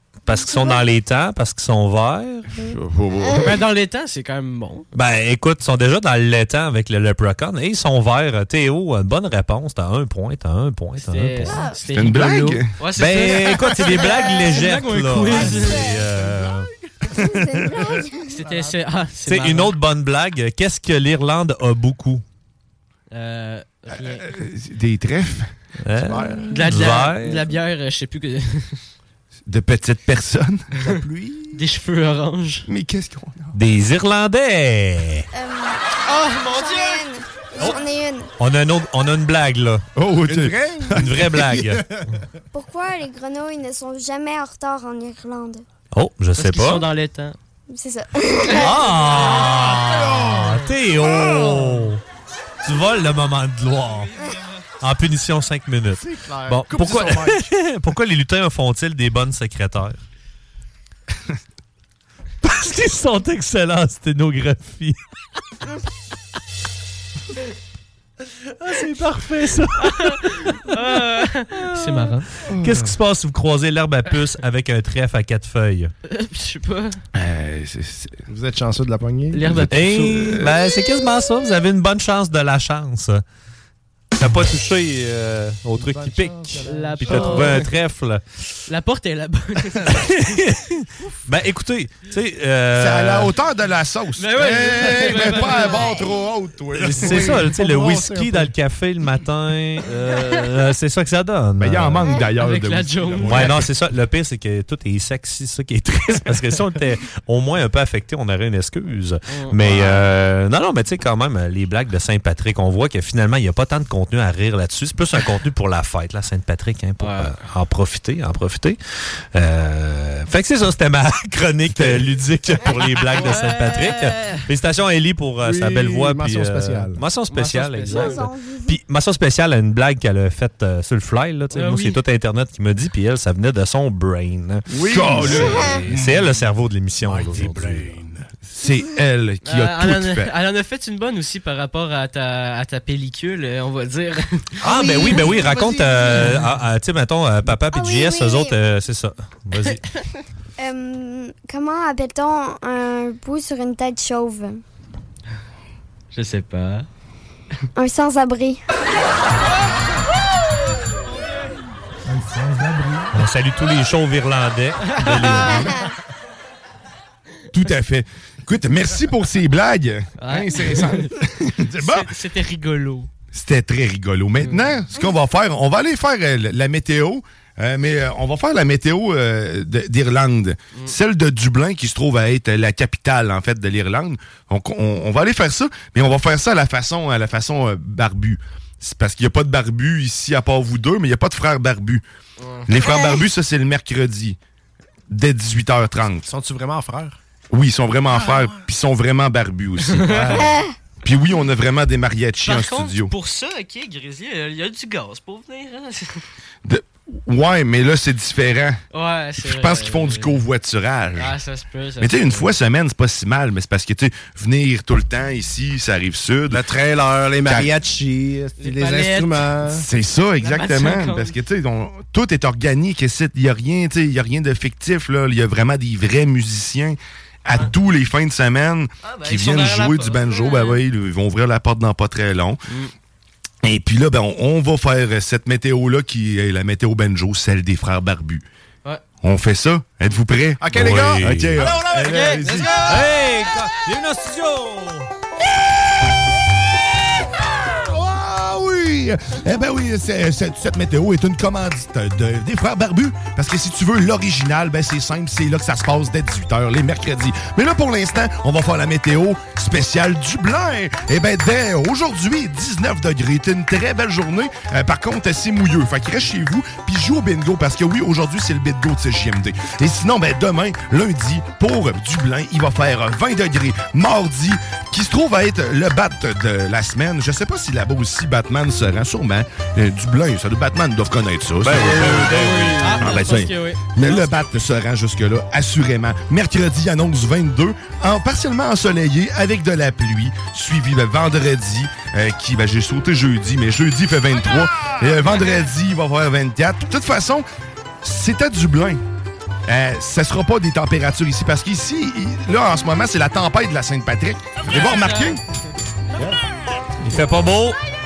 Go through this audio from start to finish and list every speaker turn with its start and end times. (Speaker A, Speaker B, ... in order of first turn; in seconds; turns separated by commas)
Speaker A: 0.2-2.5, Speaker B: 0.3-0.9, Speaker B: 2.5-3.5, Speaker C: 2.6-3.5, Speaker D: 3.4-4.9, Speaker A: 4.9-11.6, Speaker D: 11.0-16.0, Speaker B: 11.4-11.8, Speaker C: 11.9-12.7, Speaker A: 12.9-16.7, Speaker B: 14.0-14.6, Speaker B: 15.3-16.1, Speaker E: 16.1-16.9, Speaker B: 17.1-18.4, Speaker D: 18.3-19.8, Speaker E: 18.4-18.8, Speaker A: 19.2-22.2, Speaker D: 23.1-24.3, Speaker C: 23.9-25.5, Speaker A: 25.8-27.5, Speaker E: 25.9-26.8, Speaker D: 26.5-28.8, Speaker C: 29.5-30.6, Speaker E: 30.8-31.6, Speaker D: 31.5-32.7, Speaker C: 32.7-33.5, Speaker A: 33.5-35.2, Speaker B: 35.3-35.8, Speaker D: 36.0-37.1, Speaker B: 36.4-38.3, Speaker A: 38.4-39.8, Speaker C: 40.0-41.3, Speaker E: 40.2-42.2, Speaker A: 40.9-41.8, Speaker B: 42.5-45.6, Speaker A: 45.9-46.9, Speaker D: 46.4-47.4, Speaker B: 47.7-49.0, Speaker A: 48.5-52.0, Speaker E: 49.1-51.9, Speaker A: 52.6-54.1, Speaker D: 53.8-54.5, Speaker A: 54.8-60.0, Speaker E: 56.0-57.5, Speaker A: 62.4-65.0, Speaker A: 68.5-71.0, Speaker D: 69.8-72.3, Speaker A: 71.5-75.9, Speaker C: 72.5-72.9, Speaker D: 76.1-77.0, Speaker C: 77.1-78.2, Speaker E: 78.3-79.7, Speaker D: 79.3-80.4, Speaker A: 79.7-83.2, Speaker C: 80.2-80.5, Speaker A: 84.1-88.2, Speaker E: 85.8-87.7, Speaker D: 86.7-87.7, Speaker D: 88.7-90.3, Speaker A: 89.9-93.3, Speaker C: 92.7-97.2, Speaker D: 94.2-96.0, Speaker E: 94.7-95.7, Speaker B: 95.8-96.1, Speaker E: 96.5-98.5, Speaker A: 96.8-102.1, Speaker C: 101.6-103.6, Speaker B: 102.1-102.3, Speaker D: 102.2-103.6, Speaker A: 103.2-118.8, Speaker D: 109.3-110.1, Speaker D: 117.0-117.3, Speaker A: 119.3-138.0, Speaker C: 121.7-122.0, Speaker D: 123.1-124.4, Speaker E: 125.4-127.0, Speaker D: 127.3-128.3, Speaker B: 127.8-128.8, Speaker D: 131.5-132.0, Speaker E: 134.7-136.5, Speaker C: 134.9-135.8, Speaker B: 135.5-135.8, Speaker E: 137.0-138.2, Speaker C: 138.4-140.3, Speaker D: 139.4-144.5, Speaker E: 144.6-146.5, Speaker A: 144.6-149.8, Speaker B: 144.8-145.7, Speaker B: 147.6-148.6, Speaker B: 150.6-154.6, Speaker D: 156.1-156.9, Speaker B: 157.8-158.6, Speaker E: 162.1-163.2, Speaker A: 163.1-165.8, Speaker D: 164.9-165.6, Speaker C: 167.5-172.1, Speaker D: 170.2-171.1, Speaker D: 171.8-173.1, Speaker C: 173.3-192.0, Speaker D: 174.4-174.8, Speaker D: 192.4-192.7, Speaker C: 192.7-194.4, Speaker B: 192.9-193.1, Speaker C: 195.1-196.3, Speaker E: 196.3-197.2, Speaker C: 197.5-200.3, Speaker E: 198.1-198.6, Speaker D: 199.8-200.5, Speaker E: 200.1-200.5, Speaker B: 200.4-200.7, Speaker C: 201.0-203.1, Speaker D: 202.4-206.2, Speaker C: 206.6-208.8, Speaker D: 208.9-210.4, Speaker C: 209.4-211.3, Speaker D: 211.2-212.5, Speaker C: 212.0-216.6, Speaker E: 216.5-219.8, Speaker C: 217.4-217.7, Speaker D: 218.6-219.5, Speaker C: 219.7-232.6, Speaker D: 220.4-221.3, Speaker D: 229.0-230.8, Speaker C: 233.6-238.4, Speaker C: 239.2-243.0, Speaker E: 240.6-241.2, Speaker A: 240.7-245.1, Speaker D: 241.6-243.1, Speaker C: 247.7-282.4, Speaker A: 281.6-283.2, Speaker E: 281.7-283.0, Speaker D: 282.1-284.3, Speaker C: 283.0-297.4, Speaker C: 298.0-299.0, Speaker C: 299.7-305.4, Speaker D: 304.7-305.4, Speaker A: 307.0-307.8